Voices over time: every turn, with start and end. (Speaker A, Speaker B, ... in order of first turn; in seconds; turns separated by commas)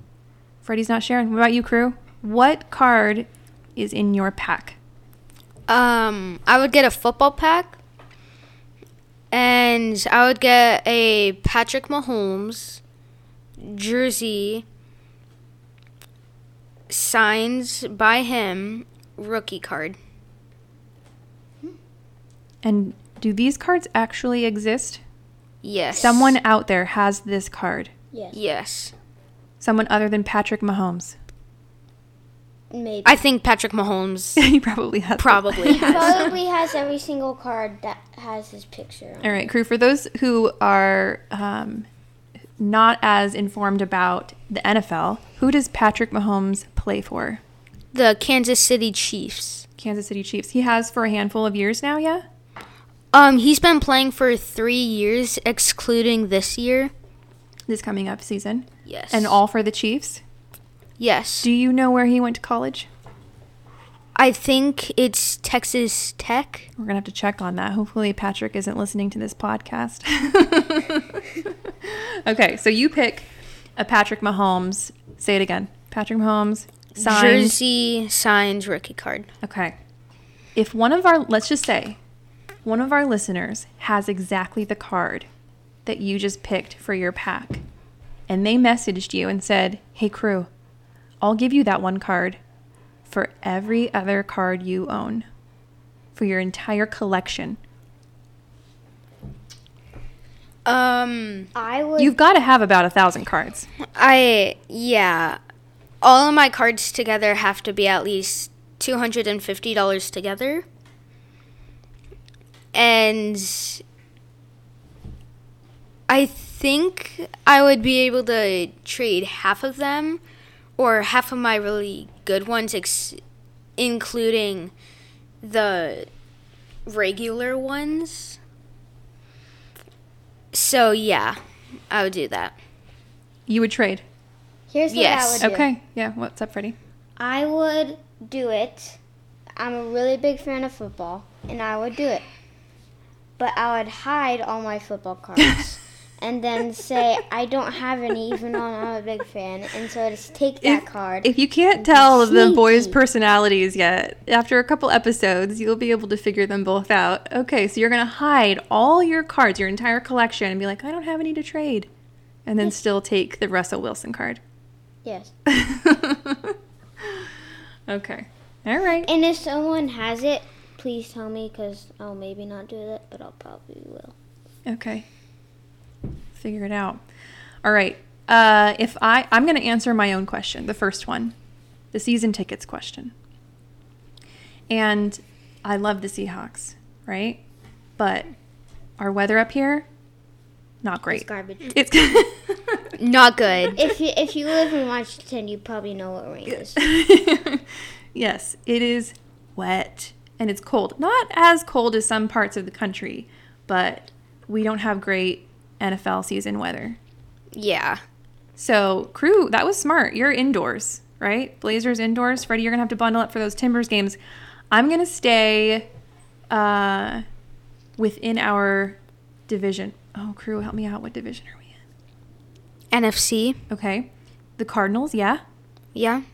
Speaker A: 0.6-4.8, Speaker B: 5.7-7.8, Speaker B: 9.3-12.8, Speaker B: 13.6-14.6, Speaker B: 16.9-20.0, Speaker A: 22.6-25.0, Speaker B: 25.6-26.4, Speaker C: 25.9-26.3, Speaker A: 26.0-27.9, Speaker C: 28.1-28.4, Speaker B: 28.3-28.9, Speaker A: 29.6-31.1, Speaker C: 32.7-33.2, Speaker B: 33.0-34.4, Speaker A: 34.4-36.3, Speaker B: 35.2-36.3, Speaker C: 35.7-39.5, Speaker A: 39.2-41.9, Speaker A: 42.6-47.4, Speaker B: 47.9-49.6, Speaker A: 49.8-52.2, Speaker B: 53.1-56.9, Speaker A: 57.7-60.2, Speaker B: 58.9-59.4, Speaker B: 61.0-61.5, Speaker A: 61.4-62.9, Speaker B: 64.2-66.7, Speaker A: 66.8-77.6, Speaker B: 77.0-79.3, Speaker A: 79.4-79.8, Speaker A: 80.5-82.0, Speaker A: 82.6-85.3, Speaker A: 85.8-87.6, Speaker A: 88.3-90.5, Speaker A: 91.2-92.4, Speaker A: 93.1-95.2, Speaker A: 96.2-97.6, Speaker B: 100.7-101.5, Speaker C: 101.5-102.2, Speaker A: 102.0-103.7, Speaker B: 103.9-105.4, Speaker B: 106.0-110.6, Speaker B: 112.7-113.8, Speaker B: 116.1-120.2, Speaker B: 120.8-123.2, Speaker B: 123.8-124.7, Speaker B: 125.4-126.1, Speaker B: 126.8-128.4, Speaker B: 130.5-131.4, Speaker B: 131.9-132.5, Speaker A: 133.5-134.0, Speaker C: 134.7-135.7, Speaker B: 134.9-135.4, Speaker A: 135.4-136.8, Speaker C: 137.2-139.0, Speaker C: 139.6-142.2, Speaker C: 143.4-153.0, Speaker A: 150.6-161.9, Speaker A: 162.4-164.4, Speaker C: 165.0-165.3, Speaker A: 165.4-167.3, Speaker A: 167.9-169.1, Speaker C: 169.1-174.1, Speaker A: 174.7-175.1, Speaker A: 176.3-177.0, Speaker A: 177.6-181.3, Speaker A: 181.9-183.1, Speaker A: 184.7-187.4, Speaker A: 188.0-188.3, Speaker A: 189.0-189.9, Speaker A: 190.8-192.8, Speaker C: 191.1-191.7, Speaker B: 193.0-193.8, Speaker C: 193.7-196.8, Speaker A: 196.5-207.0, Speaker B: 207.5-208.0, Speaker A: 208.6-214.2, Speaker A: 214.7-215.9, Speaker A: 216.5-217.2, Speaker A: 218.0-221.8, Speaker B: 222.9-223.6, Speaker A: 223.7-225.4, Speaker B: 225.9-226.2